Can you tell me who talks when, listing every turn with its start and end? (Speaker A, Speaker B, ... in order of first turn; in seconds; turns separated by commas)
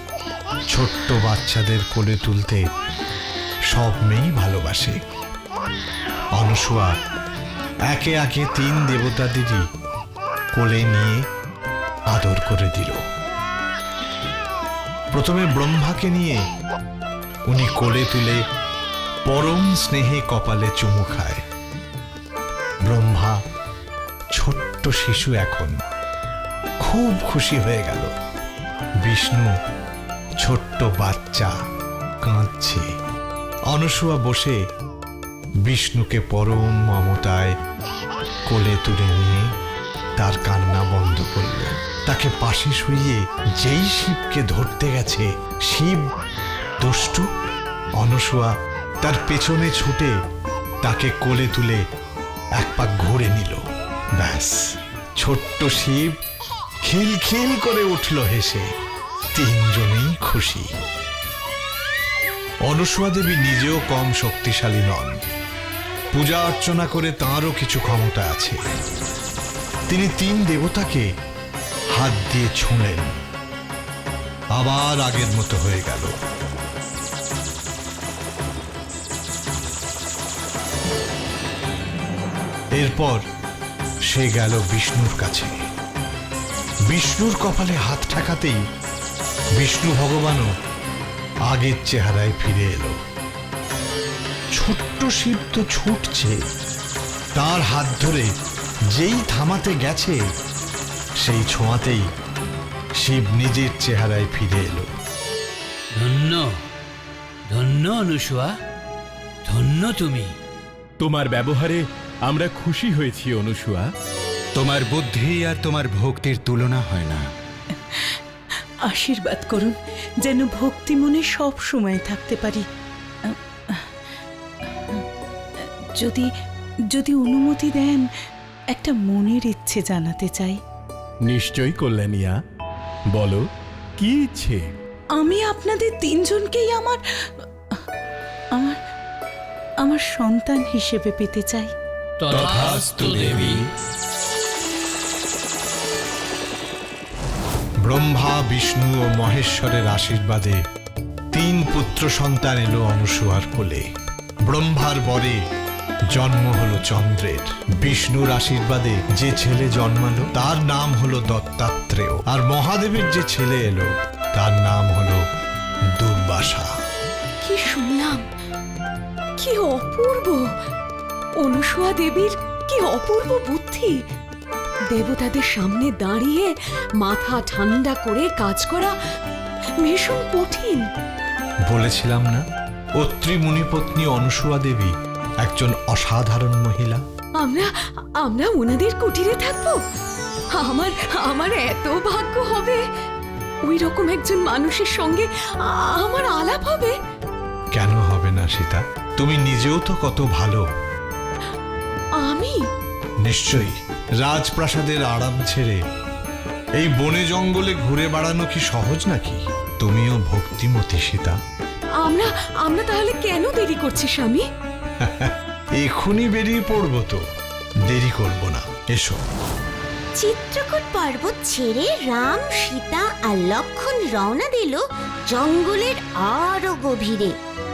Speaker A: 0.7-2.6, Speaker A: 3.7-5.0, Speaker A: 6.3-6.9, Speaker A: 7.9-9.6, Speaker A: 10.5-11.2, Speaker A: 12.1-13.0, Speaker A: 15.1-16.4, Speaker A: 17.5-18.4, Speaker A: 19.3-21.4, Speaker A: 22.9-23.4, Speaker A: 24.3-25.7, Speaker A: 26.8-28.1, Speaker A: 29.0-29.5, Speaker A: 30.4-31.5, Speaker A: 32.2-32.9, Speaker A: 33.7-34.6, Speaker A: 35.6-37.5, Speaker A: 38.5-39.5, Speaker A: 40.2-46.1, Speaker A: 46.8-47.2, Speaker A: 48.0-50.1, Speaker A: 50.8-51.8, Speaker A: 52.6-53.6, Speaker A: 54.2-54.6, Speaker A: 55.2-56.2, Speaker A: 56.8-58.6, Speaker A: 59.3-60.7, Speaker A: 62.6-65.3, Speaker A: 66.1-68.6, Speaker A: 69.9-71.1, Speaker A: 71.9-73.1, Speaker A: 74.5-76.1, Speaker A: 82.8-83.2, Speaker A: 84.1-85.5, Speaker A: 86.9-88.6, Speaker A: 89.6-90.5, Speaker A: 91.5-93.0, Speaker A: 94.5-96.4, Speaker A: 97.3-98.3, Speaker A: 98.9-100.2, Speaker A: 101.2-102.0, Speaker A: 103.0-104.9, Speaker B: 106.0-106.5, Speaker B: 107.5-108.5, Speaker B: 109.5-110.3, Speaker C: 111.0-113.9, Speaker D: 114.6-117.2, Speaker E: 118.8-122.7, Speaker E: 123.2-123.8, Speaker E: 125.6-126.3, Speaker E: 126.9-128.1, Speaker E: 128.7-130.6, Speaker C: 131.2-132.4, Speaker C: 133.1-134.7, Speaker E: 135.2-137.0, Speaker E: 138.5-138.8, Speaker E: 139.8-141.7, Speaker B: 142.2-143.6, Speaker D: 142.4-143.2, Speaker A: 147.8-150.6, Speaker A: 151.3-153.8, Speaker A: 154.5-155.4, Speaker A: 156.1-165.2, Speaker A: 166.0-166.7, Speaker F: 167.4-168.2, Speaker F: 169.4-170.5, Speaker F: 171.4-174.0, Speaker F: 174.9-178.9, Speaker F: 179.8-180.9, Speaker A: 181.7-182.4, Speaker A: 183.0-184.9, Speaker A: 185.4-187.0, Speaker F: 187.4-187.7, Speaker F: 188.2-189.8, Speaker F: 190.5-192.8, Speaker F: 193.6-196.9, Speaker A: 197.7-200.6, Speaker F: 202.2-202.6, Speaker A: 203.2-205.8, Speaker A: 206.8-211.4, Speaker F: 212.0-214.4, Speaker A: 215.0-217.2, Speaker A: 217.9-219.2, Speaker G: 220.2-224.8, Speaker G: 225.3-227.3